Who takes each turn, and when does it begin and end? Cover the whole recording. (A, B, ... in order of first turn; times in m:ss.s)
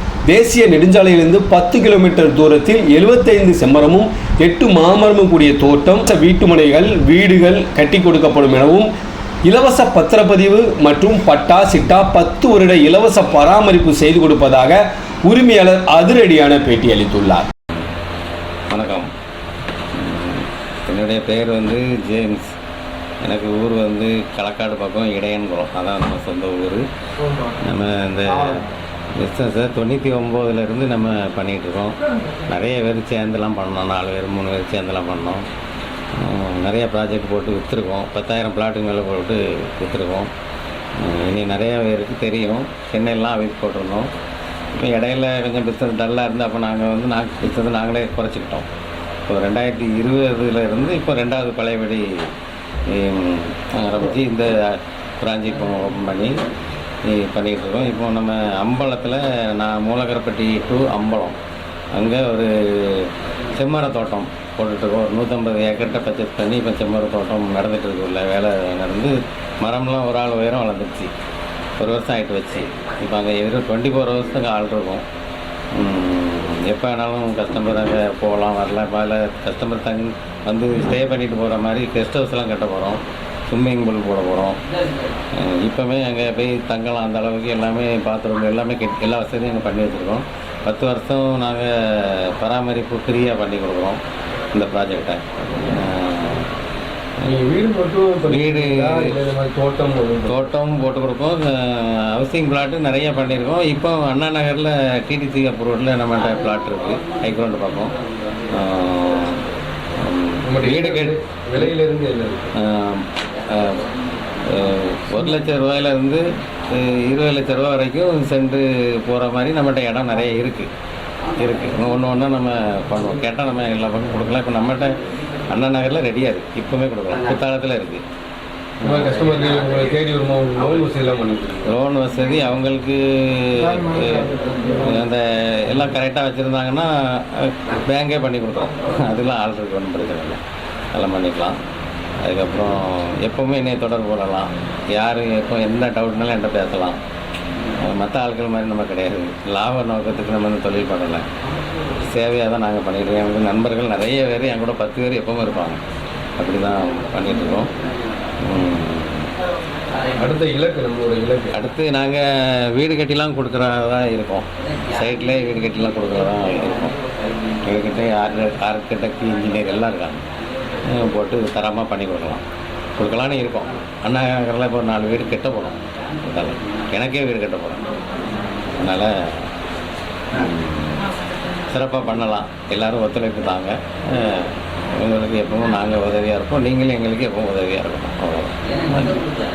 0:00.3-0:08.9 A
0:09.4-0:17.5 A
0:18.7-0:19.1 B
0:20.0-0:22.5 B
0:23.2-0:26.8 B
0:27.6-0:35.4 B
0:36.2-0:40.3 B
0:41.0-0:44.1 B
0:44.8-0:48.7 B
0:49.3-0:52.3 B
0:52.9-0:56.4 B
0:57.1-1:01.4 B
1:01.9-1:11.1 B
1:11.8-1:15.0 B
1:15.8-1:24.6 B
1:25.4-1:34.0 B
1:34.5-1:36.5 B
1:37.2-1:40.4 C
1:38.3-1:39.2 B
1:40.2-1:48.0 B
1:48.5-1:51.7 B
1:50.4-1:52.5 C
1:52.6-1:53.9 B
1:54.5-2:00.7 B
2:01.4-2:08.0 B
2:08.8-2:09.1 B
2:08.8-2:11.7 C
2:11.6-2:20.4 B
2:20.9-2:21.6 B
2:22.2-2:27.0 B
2:27.8-2:31.3 B
2:32.0-2:35.8 B
2:36.4-2:37.7 B
2:38.4-2:39.3 B
2:40.2-2:41.6 C
2:41.5-2:47.0 B
2:47.6-2:50.2 B
2:50.8-2:52.4 B
2:53.0-2:57.9 B
2:58.7-2:59.5 B
3:00.3-3:09.2 B